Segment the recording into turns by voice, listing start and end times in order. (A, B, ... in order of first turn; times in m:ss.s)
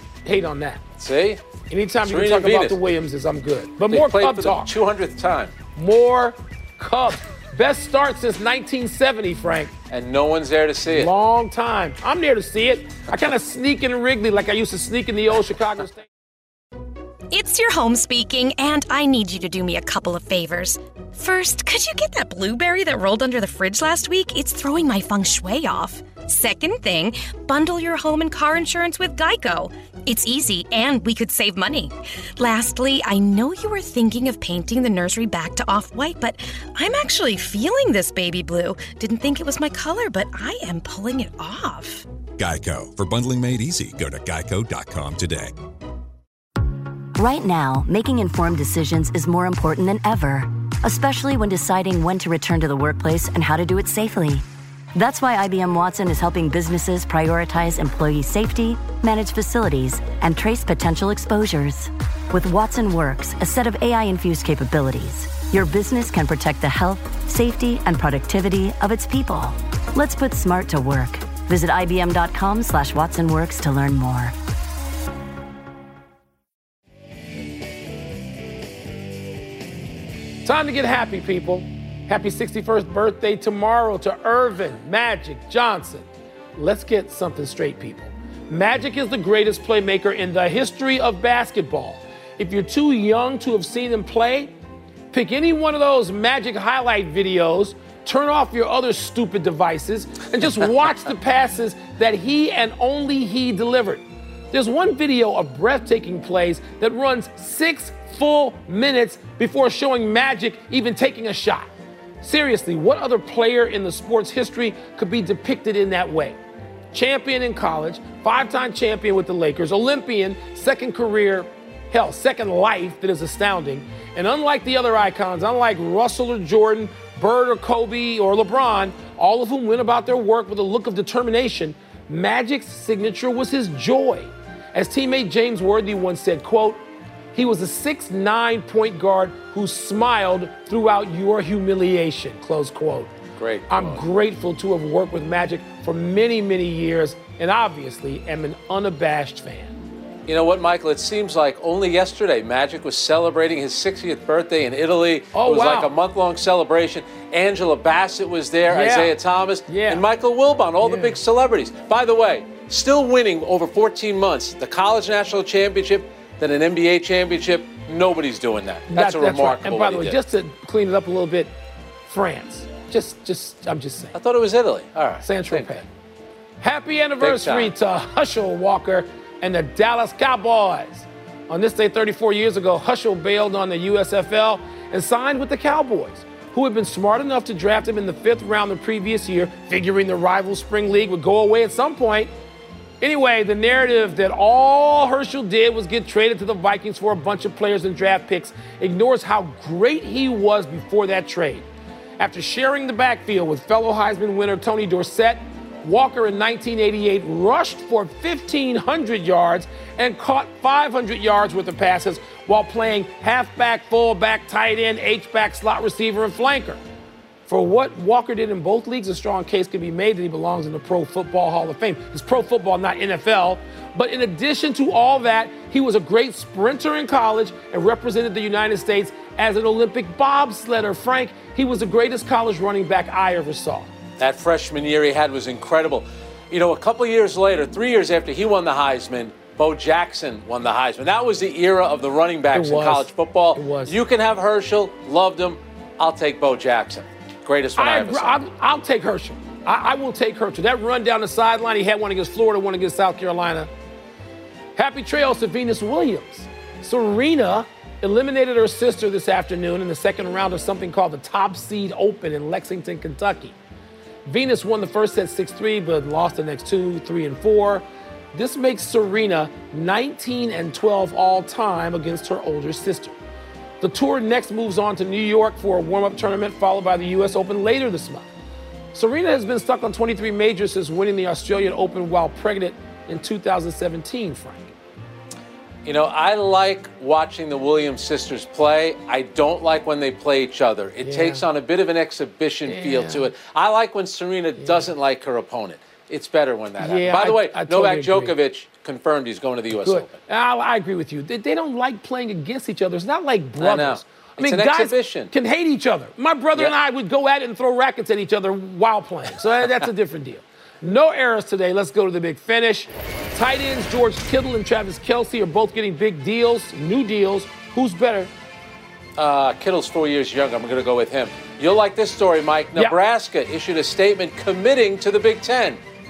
0:00.2-0:00.8 A
0:01.0-0:01.4 B
0:01.7-0:04.7 A
0:02.1-0:02.8 B
0:03.9-0:05.6 B
0:05.8-0:09.7 A
0:09.9-0:11.1 B
0:10.9-0:16.1 A
0:17.3-0:42.1 C
0:42.4-0:45.5 D
0:47.2-1:14.4 E
1:20.4-1:34.5 A
1:35.1-1:51.7 A
1:52.2-1:56.4 A
1:56.9-2:16.8 A
2:17.3-2:23.1 A
2:23.4-2:24.0 B
2:23.7-2:29.8 A
2:30.3-2:50.2 B
2:35.3-2:35.9 A
2:38.7-2:39.2 A
2:39.7-2:40.0 A
2:40.8-2:41.2 A
2:48.9-2:51.5 A
2:52.1-2:54.2 A
2:54.2-2:55.8 B
2:55.2-2:55.9 A
2:56.6-3:12.3 A
2:57.2-2:57.7 B
3:13.0-3:21.7 A
3:22.2-3:36.8 A
3:37.5-3:53.9 A
3:54.2-4:08.4 B
4:02.5-4:04.0 A
4:07.8-4:13.7 A
4:14.8-4:23.6 A
4:24.3-4:33.2 A
4:33.8-4:38.3 A
4:38.9-4:44.7 A
4:45.8-5:00.2 B
4:51.0-4:51.4 A
4:52.7-4:53.3 A
4:56.8-4:58.4 A
4:59.8-5:18.3 A
5:03.6-5:05.3 B
5:19.2-5:25.8 B